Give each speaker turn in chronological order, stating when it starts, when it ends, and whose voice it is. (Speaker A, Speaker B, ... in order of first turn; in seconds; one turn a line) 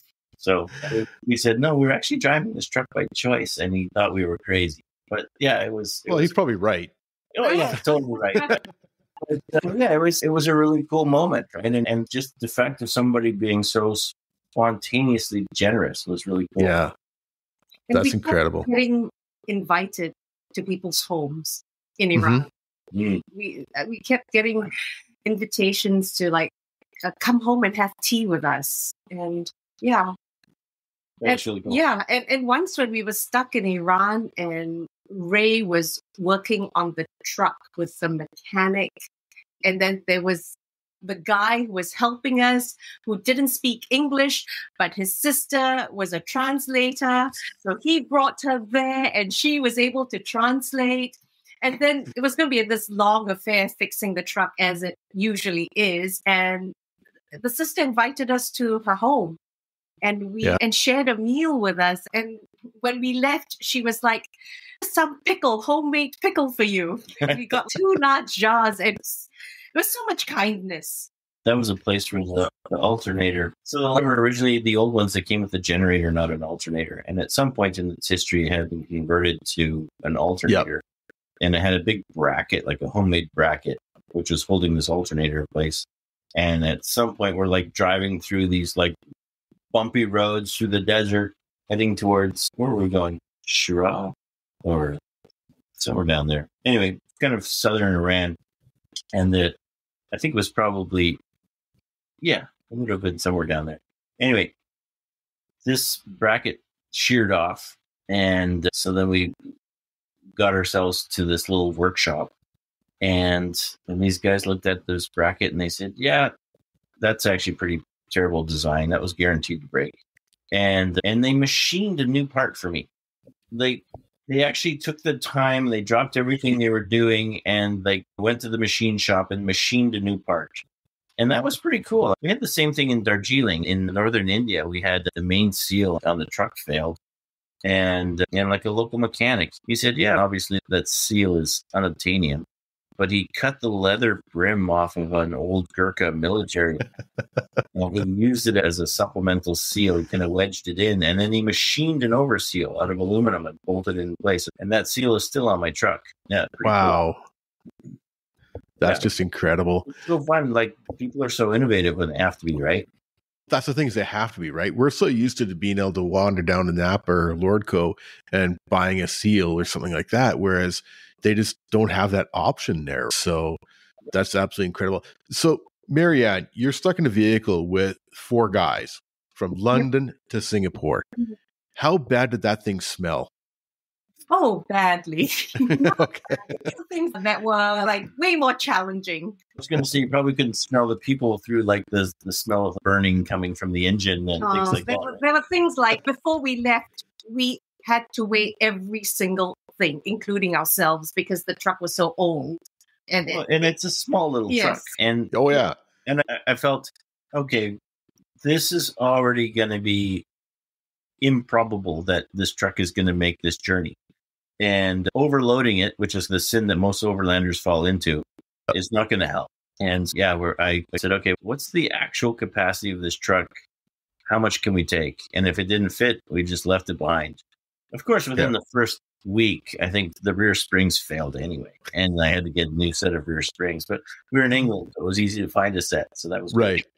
Speaker A: 0.4-6.3
Speaker B: 6.1-6.9
Speaker A: 7.3-8.5
Speaker C: 7.4-7.8
Speaker A: 9.2-16.8
Speaker B: 16.6-16.9
Speaker C: 17.9-22.4
Speaker B: 17.9-18.7
Speaker B: 22.1-22.4
Speaker A: 22.9-23.2
Speaker C: 23.3-24.7
Speaker C: 25.2-26.5
Speaker C: 27.0-30.1
Speaker A: 31.2-31.8
Speaker C: 31.2-39.0
Speaker C: 39.6-56.8
Speaker C: 57.4-59.4
Speaker C: 60.0-71.1
Speaker A: 71.5-80.8
Speaker A: 81.4-89.0
Speaker A: 89.7-95.0
Speaker A: 95.8-98.4
Speaker A: 99.1-99.6
Speaker A: 100.1-101.2
Speaker A: 102.2-104.5
Speaker A: 105.6-109.4
Speaker A: 110.3-112.3
Speaker A: 113.0-116.3
Speaker A: 117.0-120.0
Speaker A: 120.5-122.9
Speaker A: 123.5-130.7
Speaker A: 131.2-137.0
Speaker A: 137.6-142.5
Speaker A: 143.0-146.8
Speaker A: 147.8-157.0
Speaker B: 156.6-157.2
Speaker B: 158.8-159.9
Speaker A: 158.8-159.1
Speaker A: 159.9-162.9
Speaker B: 163.5-181.1
Speaker B: 181.8-183.3
Speaker C: 184.3-186.0
Speaker B: 185.6-186.7
Speaker C: 186.6-189.4
Speaker A: 189.6-195.2
Speaker C: 194.4-203.7
Speaker A: 203.3-207.8
Speaker C: 204.5-204.9
Speaker B: 205.3-205.8
Speaker A: 208.4-210.2
Speaker A: 211.2-214.0
Speaker A: 214.6-223.5
Speaker A: 224.3-227.4
Speaker A: 227.9-236.8
Speaker B: 236.5-236.9